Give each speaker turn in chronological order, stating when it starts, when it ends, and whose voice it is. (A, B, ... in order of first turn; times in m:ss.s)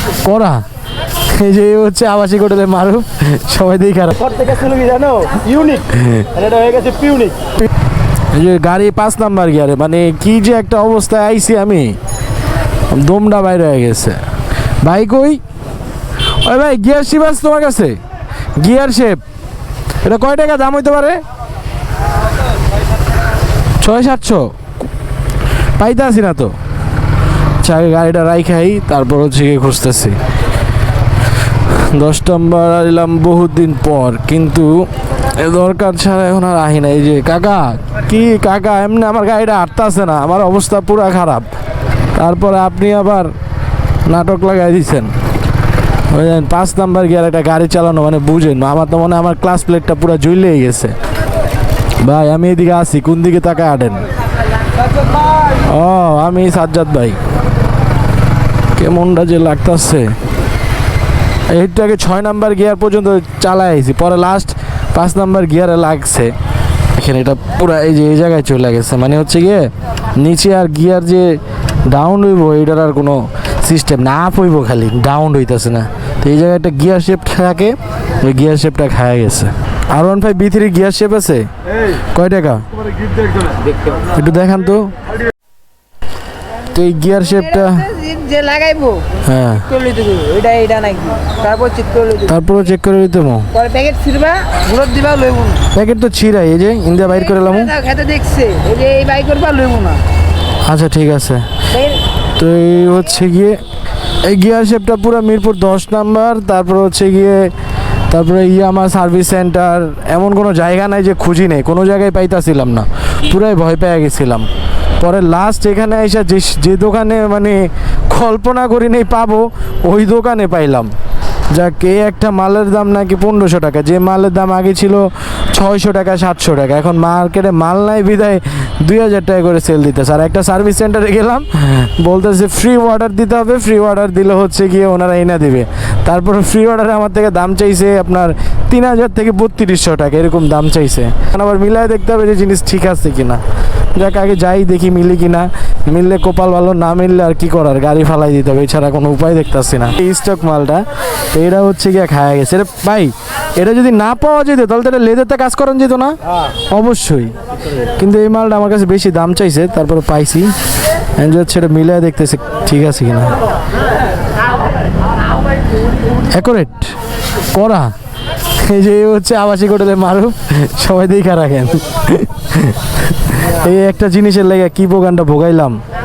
0:00.2-0:00.6 A
0:01.3-0:04.2 A
0:04.2-0:07.4 B
0:06.0-0:06.2 A
0:08.3-0:12.0 A
0:12.9-0:14.2 A
0:14.8-0:15.4 A
0:16.4-0:18.0 A
0:18.6-0:19.2 A
0:20.0-0:21.2 A
0:23.8-0:24.5 A
0:25.8-0:26.5 A
0:27.6-0:30.2 A
0:31.7-0:41.5 A
0:42.2-0:43.3 A
0:44.0-0:45.1 A
0:46.1-0:51.0 A
0:52.0-0:54.0 A
0:55.6-0:57.2 A
0:58.8-1:00.2 A
1:01.5-1:06.3 A
1:07.0-1:21.5 A
1:22.1-1:22.7 A
1:24.1-1:24.9 A
1:26.7-1:27.9 A
1:27.6-1:29.1 C
1:29.2-1:29.8 A
1:29.7-1:32.3 C
1:32.2-1:33.5 A
1:33.5-1:35.6 C
1:35.7-1:37.8 A
1:37.4-1:40.0 C
1:40.6-1:41.5 A
1:42.4-1:43.6 A
1:44.2-1:47.5 A
1:48.1-1:54.5 A
1:55.0-2:00.9 A
2:01.5-2:23.4 A
2:24.0-2:36.2 A
2:36.7-2:37.3 A
2:38.0-2:40.5 A
2:41.2-2:43.4 A
2:46.3-2:46.9 A
2:47.5-2:47.9 A
2:48.5-2:55.8 A